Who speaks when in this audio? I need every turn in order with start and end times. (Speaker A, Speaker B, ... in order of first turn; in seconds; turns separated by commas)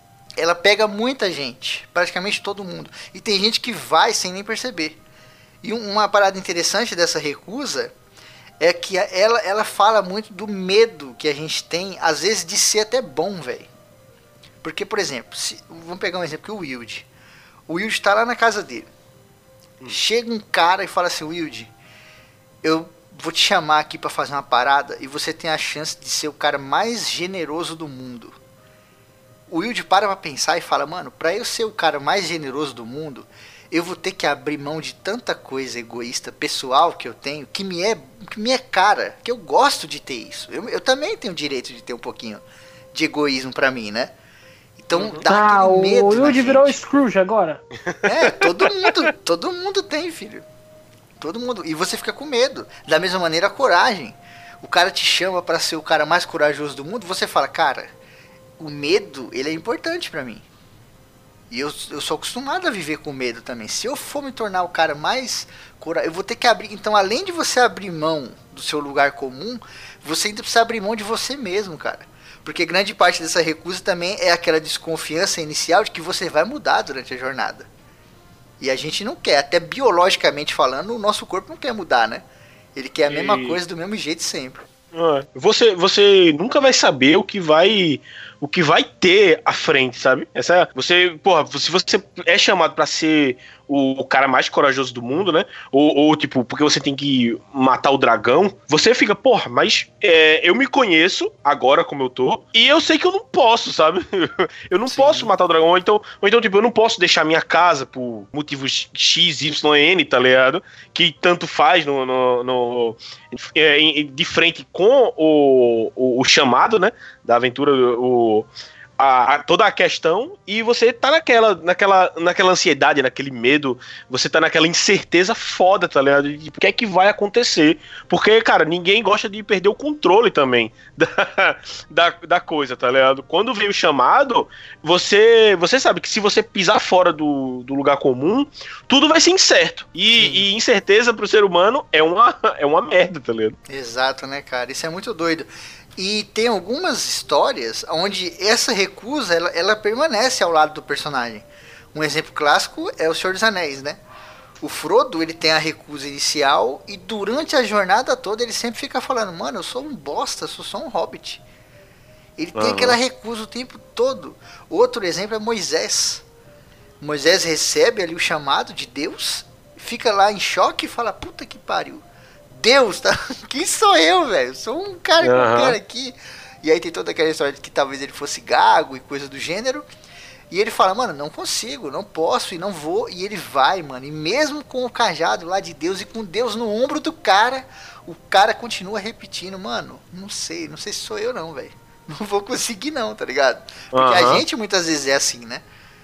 Speaker A: 0.4-5.0, Speaker A: 5.6-7.9, Speaker A: 8.6-13.7, Speaker A: 14.6-17.1, Speaker A: 17.7-18.9, Speaker A: 19.9-21.7, Speaker A: 22.6-28.4, Speaker A: 29.5-44.1, Speaker A: 44.8-46.8, Speaker B: 44.9-45.2, Speaker C: 45.3-47.6, Speaker A: 48.0-50.4, Speaker A: 51.2-57.9, Speaker A: 58.6-60.4, Speaker A: 61.5-77.7, Speaker A: 78.6-82.2, Speaker A: 82.7-84.6, Speaker B: 83.1-83.6, Speaker B: 84.9-143.6, Speaker A: 104.9-105.3, Speaker A: 140.1-140.4, Speaker A: 143.7-154.0, Speaker A: 154.6-161.4, Speaker A: 162.4-166.2, Speaker B: 162.6-162.9, Speaker A: 167.0-179.8, Speaker B: 175.2-175.8, Speaker A: 180.5-195.6, Speaker B: 193.9-194.4